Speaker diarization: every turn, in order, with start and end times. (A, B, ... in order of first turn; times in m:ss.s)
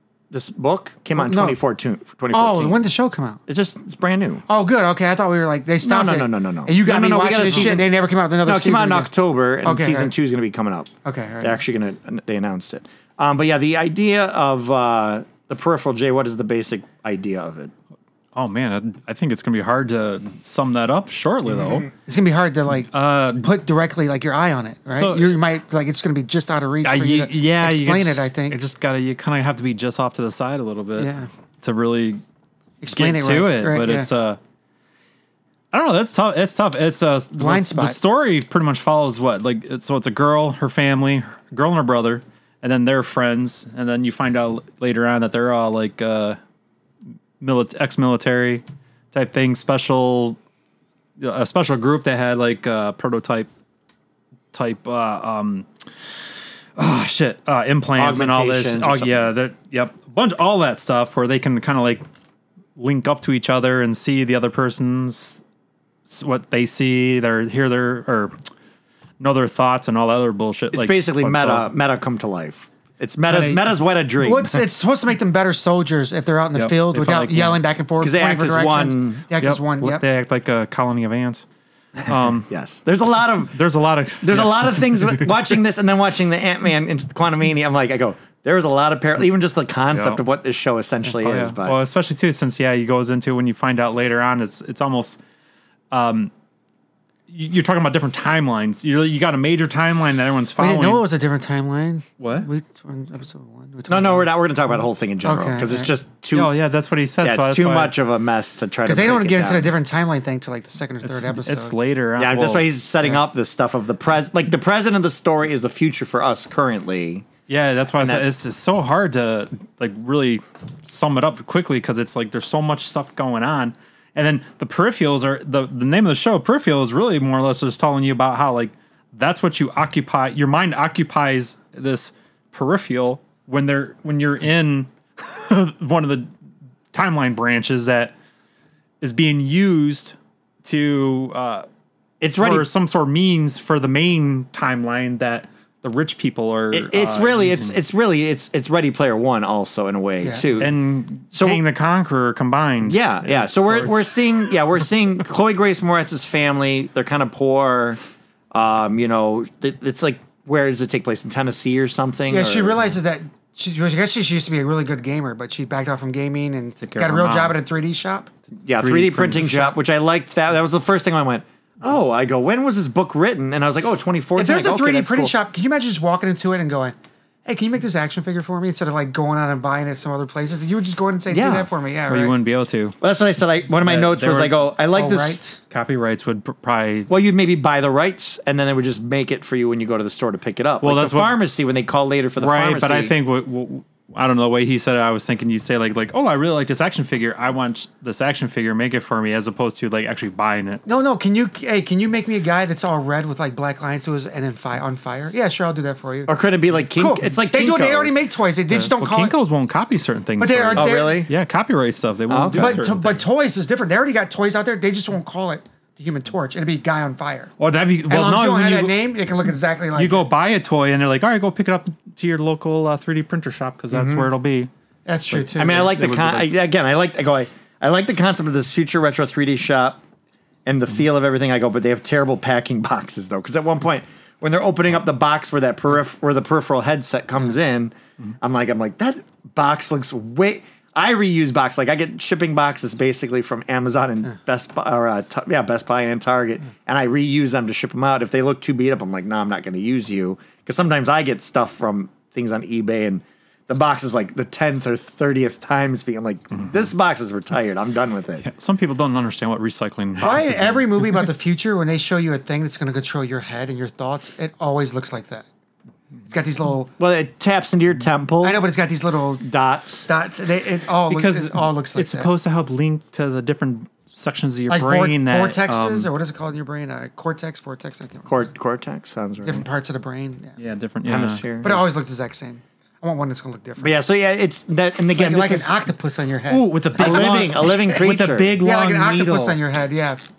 0:00.3-0:02.8 A
0:01.2-0:01.6 B
0:02.3-0:03.4 B
0:03.5-0:04.4 A
0:04.5-0:09.1 B
0:05.8-0:07.9 A
0:08.4-0:17.7 A
0:09.6-0:10.1 B
0:11.0-0:11.6 B
0:18.4-0:21.9 C
0:22.1-0:28.6 B
0:22.9-0:23.5 C
0:24.9-0:25.4 C
0:26.8-0:32.2 C
0:31.0-0:31.3 B
0:32.8-0:34.1 B
0:32.9-0:34.4 C
0:35.7-0:46.4 C
0:37.4-0:38.0 B
0:47.4-0:50.4 C
0:51.2-0:53.5 C
0:54.5-0:55.7 C
0:56.8-1:02.0 C
0:58.0-0:59.3 A
1:02.8-1:05.4 C
1:06.1-1:08.3 C
1:09.2-1:11.7 C
1:10.7-1:14.6 A
1:13.3-1:13.7 C
1:14.2-1:20.0 B
1:16.6-1:17.6 C
1:18.0-1:19.3 A
1:19.4-1:21.4 C
1:22.0-1:22.5 C
1:22.5-1:23.6 A
1:23.5-1:25.4 C
1:24.2-1:31.8 A
1:29.9-1:30.2 C
1:31.2-1:35.2 C
1:35.9-1:36.3 C
1:37.3-1:41.0 C
1:40.6-1:44.3 B
1:42.2-1:42.5 C
1:43.9-1:46.5 A
1:45.2-1:45.9 B
1:46.3-1:47.9 C
1:47.2-1:49.7 A
1:48.9-1:51.8 B
1:51.0-1:52.7 C
1:52.2-1:57.3 A
1:57.5-2:16.3 C
1:58.0-1:58.3 A
2:16.9-2:18.1 C
2:19.0-2:21.7 C
2:22.2-2:22.7 A
2:22.4-2:27.8 C
2:26.7-2:30.8 A
2:30.2-2:30.5 B
2:30.6-2:34.1 C
2:31.3-2:31.6 A
2:32.8-2:38.0 A
2:38.5-2:42.9 A
2:42.3-2:48.3 B
2:46.8-2:47.6 C
2:48.6-2:55.3 A
2:48.8-2:49.7 C
2:54.4-3:02.4 B
3:01.3-3:01.7 A
3:02.1-3:03.0 C
3:03.0-3:05.4 A
3:03.8-3:04.7 C
3:04.9-3:05.6 B
3:05.7-3:07.1 C
3:07.1-3:13.1 A
3:10.8-3:11.4 C
3:12.4-3:20.8 C
3:20.9-3:26.3 B
3:26.3-3:28.3 A
3:27.0-3:29.3 B
3:28.7-3:33.2 C
3:30.4-3:31.3 B
3:30.7-3:31.3 A
3:32.3-3:33.1 A
3:32.5-3:37.5 B
3:37.6-3:39.0 C
3:38.1-3:40.3 B
3:40.0-3:44.7 C
3:43.9-3:44.3 A
3:45.1-3:46.0 B
3:45.3-3:46.5 C
3:45.6-3:50.0 A
3:50.7-4:18.5 A
4:18.4-4:21.3 C
4:20.2-4:25.5 B
4:26.3-4:26.9 B
4:27.0-4:28.6 A
4:28.4-4:29.4 B
4:29.4-4:30.1 A
4:30.1-4:32.3 B
4:31.1-4:36.1 C
4:34.7-4:38.3 B
4:38.2-4:39.7 A
4:39.4-4:40.6 B
4:40.6-4:41.8 C
4:41.1-4:41.8 A
4:41.6-4:43.9 B
4:43.8-4:45.7 A
4:45.1-4:47.9 B
4:46.5-4:49.6 C
4:47.0-4:48.6 A
4:48.6-4:50.3 B